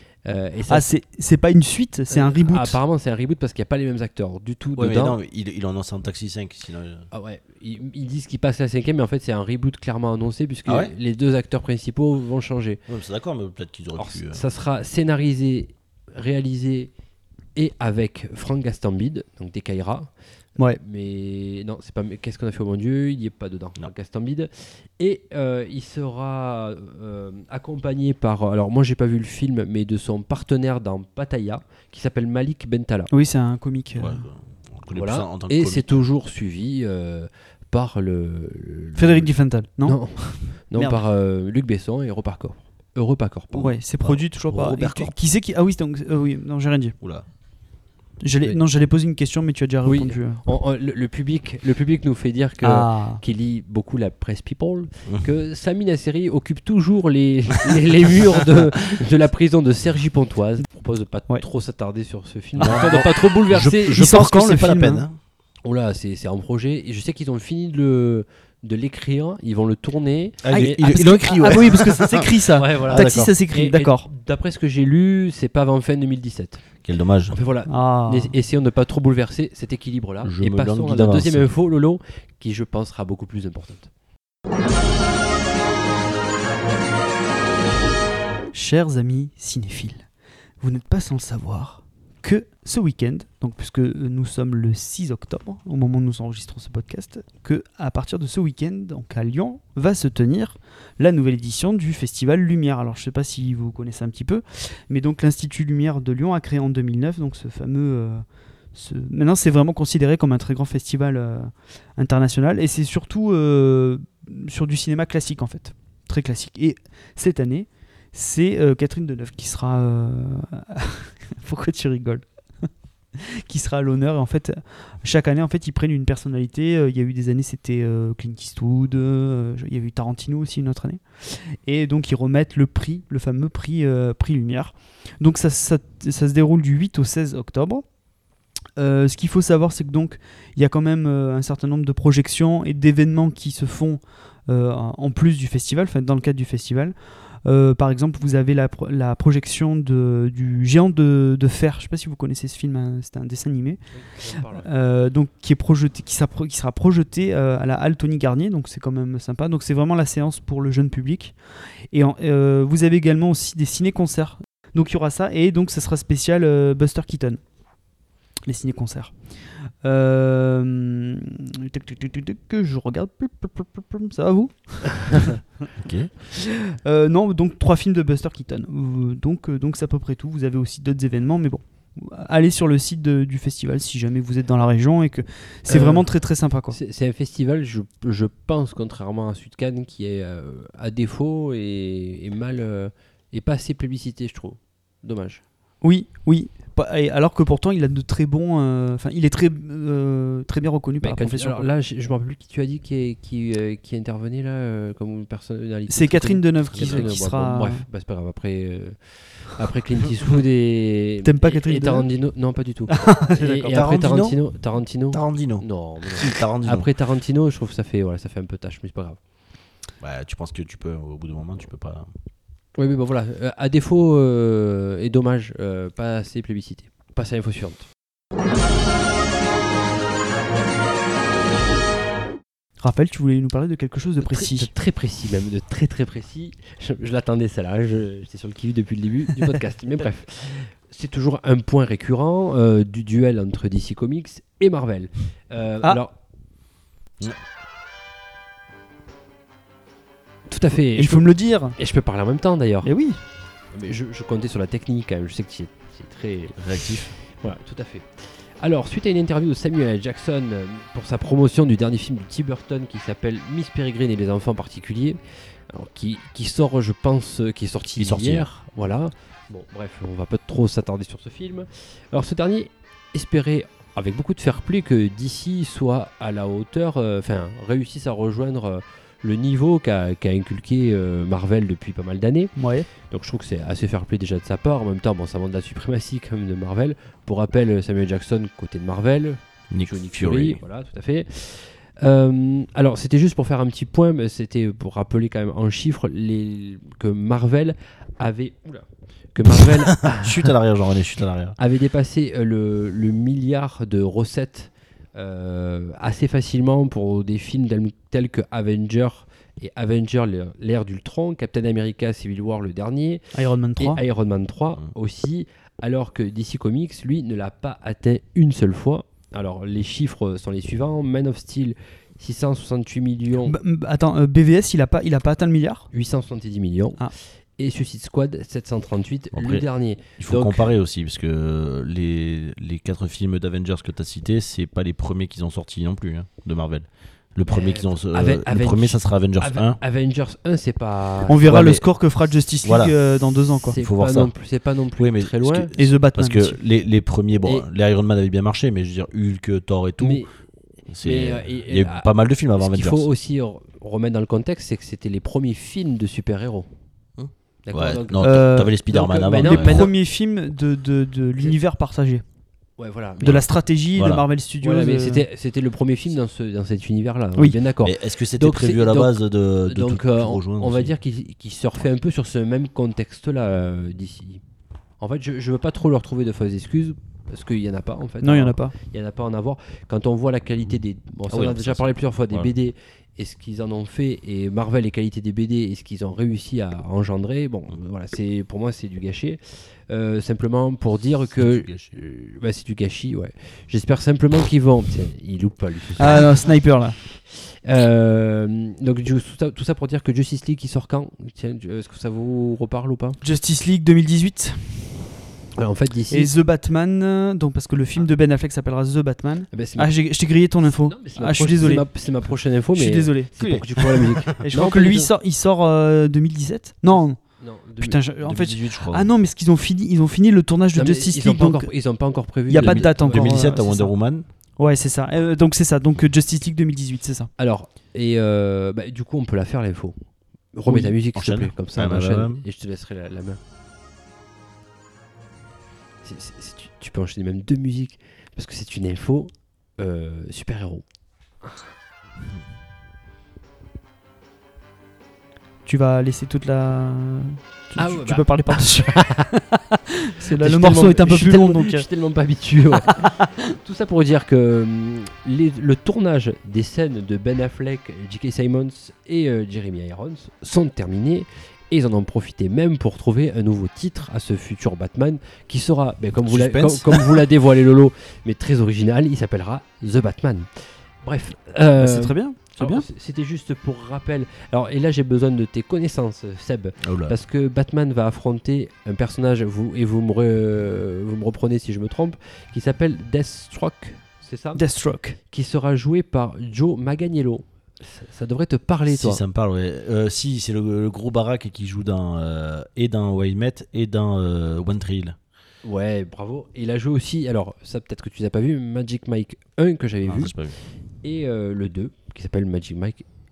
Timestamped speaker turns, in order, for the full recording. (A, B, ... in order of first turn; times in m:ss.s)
0:00.2-0:00.9 A
0:00.7-0:02.8 B
0:02.1-0:05.2 A
0:04.8-0:07.1 C
0:07.1-0:12.8 A
0:10.7-0:10.9 C
0:12.9-0:14.4 C
0:14.0-0:16.9 A
0:17.6-0:20.1 A
0:20.8-0:33.1 A
0:33.1-0:34.2 B
0:34.0-0:35.8 C
0:35.0-0:39.3 A
0:39.0-0:40.0 B
0:39.8-0:43.7 A
0:40.7-0:41.0 B
0:43.5-0:45.1 C
0:43.6-0:47.0 B
0:47.0-0:47.2 C
0:48.2-0:50.4 B
0:49.8-1:04.2 A
0:52.6-0:53.2 B
1:02.6-1:05.2 C
1:02.6-1:03.0 B
1:03.9-1:05.0 B
1:05.6-1:11.1 A
1:10.4-1:13.3 C
1:10.5-1:14.1 B
1:12.6-1:16.7 A
1:16.8-1:17.4 C
1:17.3-1:23.9 A
1:17.7-1:18.3 B
1:20.2-1:21.5 C
1:28.5-1:30.0 B
1:30.6-2:02.2 B
2:03.3-2:17.8 B
2:18.8-2:33.8 B
2:33.9-2:34.7 A
2:34.6-2:41.4 B
2:41.9-2:47.4 B
2:48.5-2:49.2 B
2:49.8-2:55.4 B
2:55.8-2:56.1 C
2:56.5-3:06.8 B
3:05.7-3:06.1 A
3:06.7-3:15.4 A
3:15.8-3:21.7 B
3:21.0-3:39.2 A
3:25.9-3:27.8 B
3:26.7-3:27.2 C
3:31.2-3:32.1 B
3:32.9-3:33.8 B
3:33.7-3:34.5 C
3:35.1-3:36.9 C
3:40.0-3:42.1 C
3:42.8-3:47.9 A
3:52.8-3:54.7 B
3:54.2-4:06.1 A
4:10.5-4:13.0 A
4:10.9-4:11.8 B
4:12.8-4:13.2 B
4:13.7-4:25.2 A
4:16.6-4:17.1 C
4:25.7-5:00.5 A
4:28.0-4:28.5 C
4:42.6-4:42.9 B
4:49.7-4:50.6 C
5:00.0-5:01.6 C
5:01.6-5:23.6 A
5:13.3-5:14.0 B
5:23.4-5:25.9 B
5:25.9-5:30.7 A
5:29.3-5:29.7 C
5:30.2-5:39.8 C
5:37.5-5:41.7 A
5:41.3-5:43.8 B
5:41.5-5:41.8 C
5:42.6-5:43.0 C
5:43.7-5:45.7 A
5:43.8-5:44.3 C
5:45.0-5:50.2 C
5:45.8-5:46.6 B
5:50.0-5:50.3 A
5:50.9-5:53.1 C
5:51.0-5:56.7 A
5:57.2-5:59.9 C
5:57.7-5:59.9 A
5:58.2-5:58.8 B
5:59.4-6:02.2 B
6:02.8-6:03.4 A
6:03.2-6:05.2 B
6:04.0-6:04.2 C
6:04.6-6:14.4 A
6:07.8-6:10.9 C
6:15.0-6:36.3 A
6:18.2-6:18.8 B
6:21.3-6:22.5 C
6:31.4-6:31.9 C
6:36.0-6:37.0 B
6:37.3-6:43.2 A
6:43.2-6:45.0 B
6:45.6-6:46.3 A
6:46.1-6:51.9 B
6:49.5-6:55.1 A
6:52.7-7:01.7 B
6:56.9-6:58.0 A
6:58.2-6:59.1 C
7:00.7-7:03.5 A
7:02.5-7:03.9 B
7:02.6-7:04.2 C
7:04.6-7:07.3 B
7:07.4-7:10.0 A
7:10.5-7:13.4 A
7:10.7-7:12.4 C
7:16.0-7:20.8 A
7:25.7-7:31.8 B
7:27.8-7:29.3 A
7:30.3-8:04.6 A
7:33.0-7:33.4 B
7:46.2-7:47.3 C
7:51.8-7:52.9 B
7:56.8-7:57.2 C
8:04.6-8:05.2 B
8:05.3-8:09.2 A
8:08.9-8:15.2 C
8:15.6-8:20.4 A
8:20.0-8:20.6 C
8:21.0-8:23.0 A